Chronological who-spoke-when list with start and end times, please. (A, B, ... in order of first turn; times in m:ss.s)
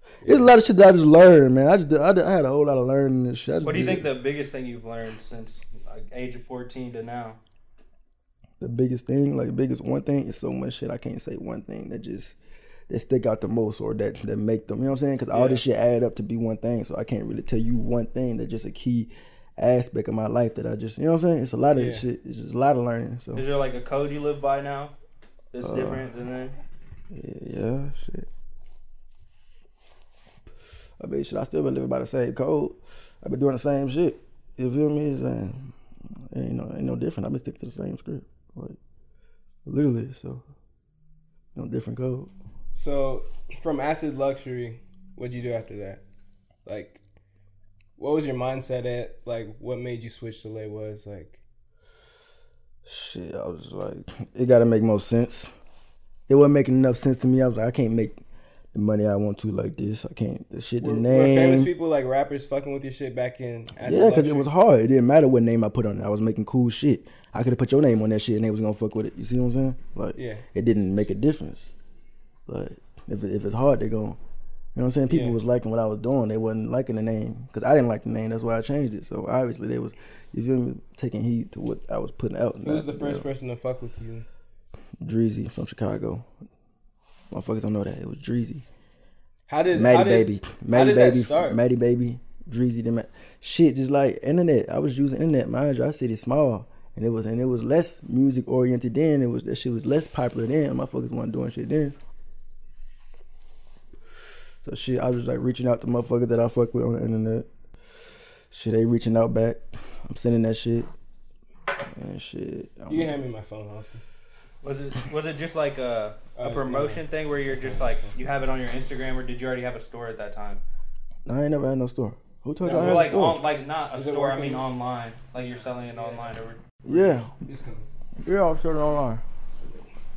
0:00.2-0:00.5 A
0:00.2-0:04.1 B
0:03.6-0:07.4 C
0:08.6-0:12.4 B
0:12.9-0:23.4 B
0:15.3-0:15.6 C
0:21.7-0:22.0 A
0:23.3-0:24.9 C
0:25.5-0:26.6 C
0:25.6-0:26.1 B
0:27.1-0:28.3 B
0:31.0-0:35.7 B
0:36.3-0:38.8 B
0:39.6-0:40.4 B
0:41.5-0:42.3 B
0:42.7-0:46.0 A
0:46.6-0:47.0 A
0:48.0-0:51.4 A
0:52.8-0:55.5 B
0:56.3-0:58.2 B
0:58.7-1:01.7 B
1:00.8-1:04.5 A
1:03.8-1:11.7 B
1:10.1-1:10.4 A
1:12.5-1:14.2 B
1:14.7-1:23.3 B
1:15.1-1:15.4 A
1:22.6-1:24.3 A
1:25.0-1:26.2 B
1:27.3-1:28.6 B
1:29.5-1:31.6 A
1:29.7-1:42.0 B
1:44.6-1:47.5 B
1:48.5-1:50.9 B
1:51.9-1:53.2 B
1:52.9-1:54.0 A
1:54.6-2:00.6 C
1:56.4-1:58.1 A
2:01.2-2:03.4 B
2:02.6-2:03.2 A
2:02.7-2:07.1 C
2:03.9-2:04.6 A
2:05.9-2:06.3 A
2:06.8-2:07.3 B
2:06.9-2:07.8 A
2:08.2-2:09.2 B